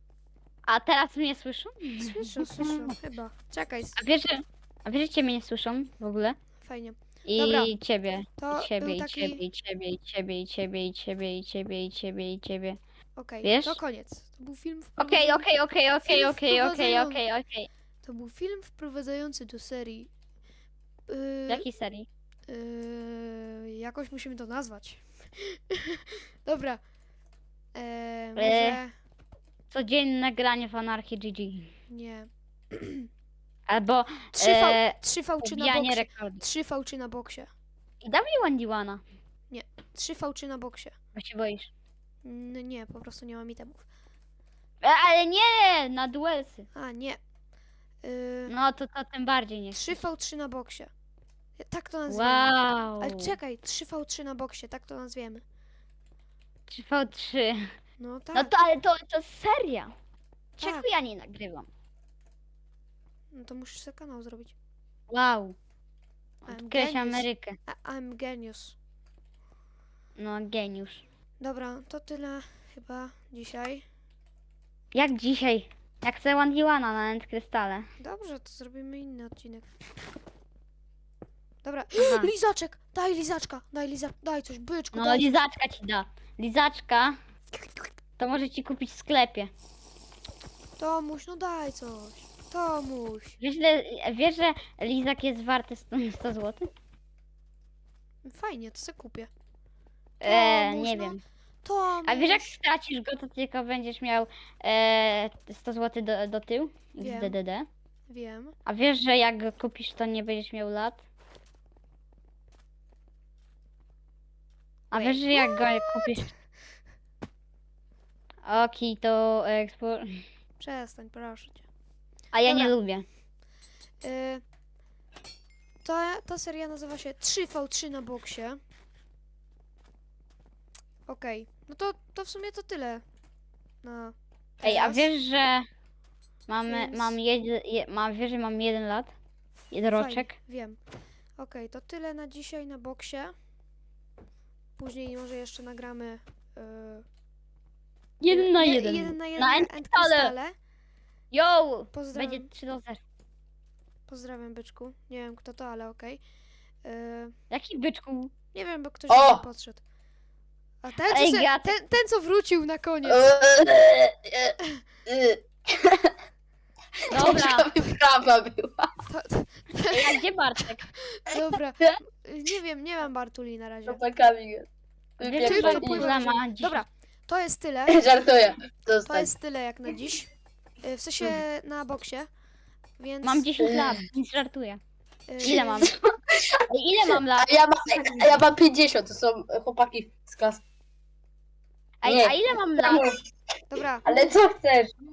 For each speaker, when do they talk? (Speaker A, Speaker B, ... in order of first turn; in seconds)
Speaker A: 0.7-2.9, 4.0-6.4, 7.2-12.8, 13.4-13.8, 15.0-17.7, 21.5-22.1, 28.4-28.8, 29.7-31.7, 33.7-36.4, 38.0-39.0, 41.1-41.7, 44.8-46.6, 48.5-50.0, 52.1-53.4, 56.7-57.7, 58.3-59.9, 60.6-61.7, 65.1-65.5, 66.4-67.5, 70.2-71.0, 74.9-77.8, 82.0-82.3, 84.9-87.2, 88.2-89.5, 93.4-96.7, 100.2-101.2, 102.0-107.7, 108.7-111.0, 114.9-116.3, 118.5-120.2, 122.3-123.0, 134.6-135.6, 136.5-139.1, 139.7-140.3, 148.2-150.3, 151.3-153.0, 157.5-158.3, 161.1-161.7, 167.1-167.7, 169.9-170.9, 175.2-176.8, 183.2-184.8, 185.4-186.0, 186.7-188.4, 192.0-193.0
Speaker B: 2.0-4.0, 6.6-7.7, 8.4-9.4, 13.2-15.5, 16.0-17.2, 18.0-20.1, 21.1-21.7, 22.5-26.8, 27.7-28.9, 31.9-33.1, 34.3-37.5, 39.5-40.9, 42.2-43.8, 46.7-47.2, 48.0-48.5, 49.7-50.9, 51.6-55.4, 58.0-58.5, 60.6-60.9, 63.3-64.5, 66.5-68.7, 71.4-73.8, 78.0-79.7, 81.6-85.4, 90.8-93.4, 98.2-99.3, 100.2-102.5, 107.0-107.4, 108.1-108.5, 114.9-116.0, 120.6-121.6, 122.4-122.7, 124.0-124.4, 125.8-128.6, 131.1-133.0, 133.8-135.1, 136.6-137.2, 139.9-140.8, 141.4-143.3, 144.8-147.0, 148.3-150.5, 151.9-152.5, 154.1-156.2, 156.8-157.3, 158.5-159.8, 160.8-163.3, 169.1-170.2, 171.1-174.0, 175.4-178.0, 179.0-180.3, 180.8-182.3, 183.0-183.5, 185.3-185.9, 193.7-194.2
Speaker C: 159.1-159.4, 163.0-166.1, 167.1-168.9, 173.8-174.7, 175.2-176.1, 177.9-179.3, 183.6-184.0, 185.5-185.8, 187.3-190.6, 192.0-193.2, 194.0-194.9